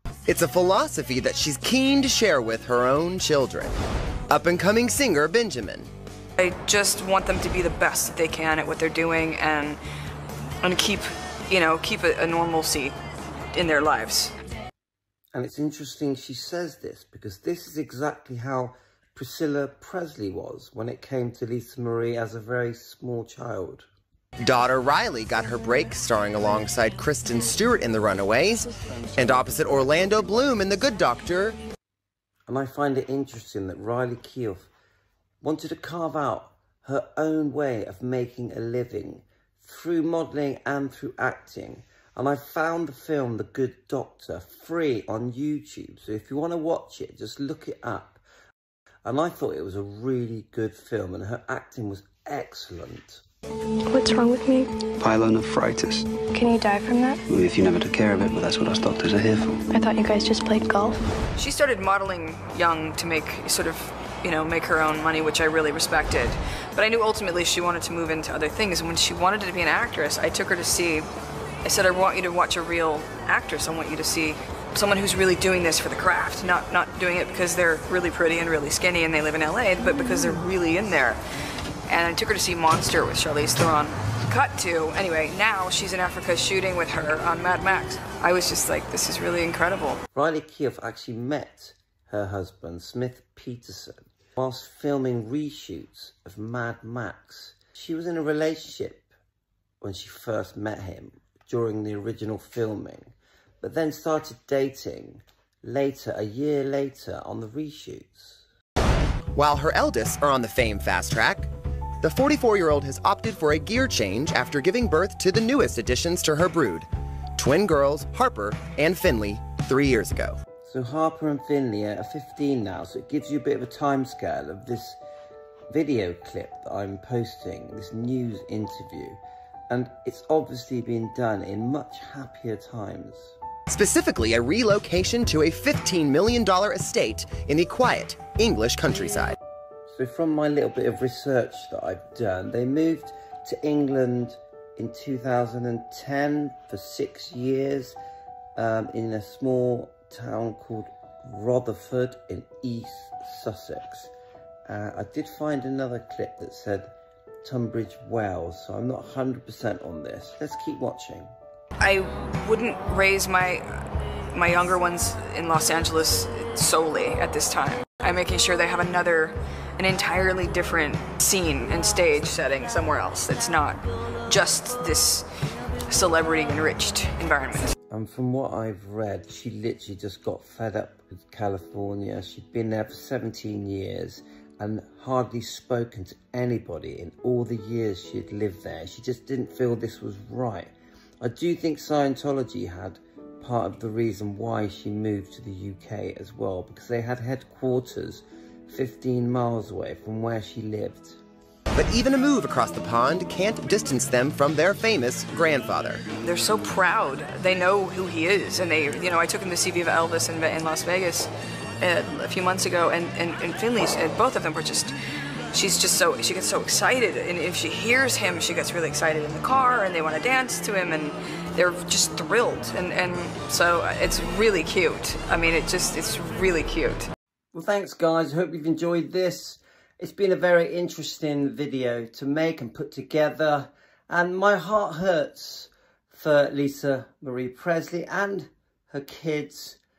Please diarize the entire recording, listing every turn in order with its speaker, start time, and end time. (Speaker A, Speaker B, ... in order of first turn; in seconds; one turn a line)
Speaker A: 0.3-3.7
Speaker A: 4.3-5.9
Speaker B: 6.4-9.8
Speaker B: 10.6-12.9
Speaker B: 13.5-14.3
Speaker C: 15.3-23.9
Speaker A: 24.4-31.6
Speaker C: 32.5-34.7
Speaker C: 35.4-48.2
Speaker C: 49.0-53.2
Speaker D: 53.9-54.7
Speaker E: 55.0-56.2
Speaker D: 56.2-57.2
Speaker E: 57.3-59.6
Speaker D: 59.7-61.0
Speaker B: 61.4-71.1
Speaker B: 71.6-81.2
Speaker B: 81.9-90.0
Speaker C: 90.1-99.1
Speaker C: 99.8-108.4
Speaker A: 109.3-111.5
Speaker A: 112.0-116.9
Speaker A: 117.4-120.4
Speaker C: 120.7-125.0
Speaker C: 125.7-133.4
Speaker A: 133.7-139.4
Speaker C: 139.9-148.0
Speaker C: 148.6-154.1
Speaker C: 154.7-156.9
Speaker C: 157.4-161.3
Speaker B: 161.8-175.3
Speaker B: 175.9-177.8
Speaker C: 177.9-201.2
Speaker A: 201.8-206.0
Speaker B: 206.2-211.3
Speaker B: 211.8-214.9
Speaker B: 215.5-227.1
Speaker C: 227.5-239.8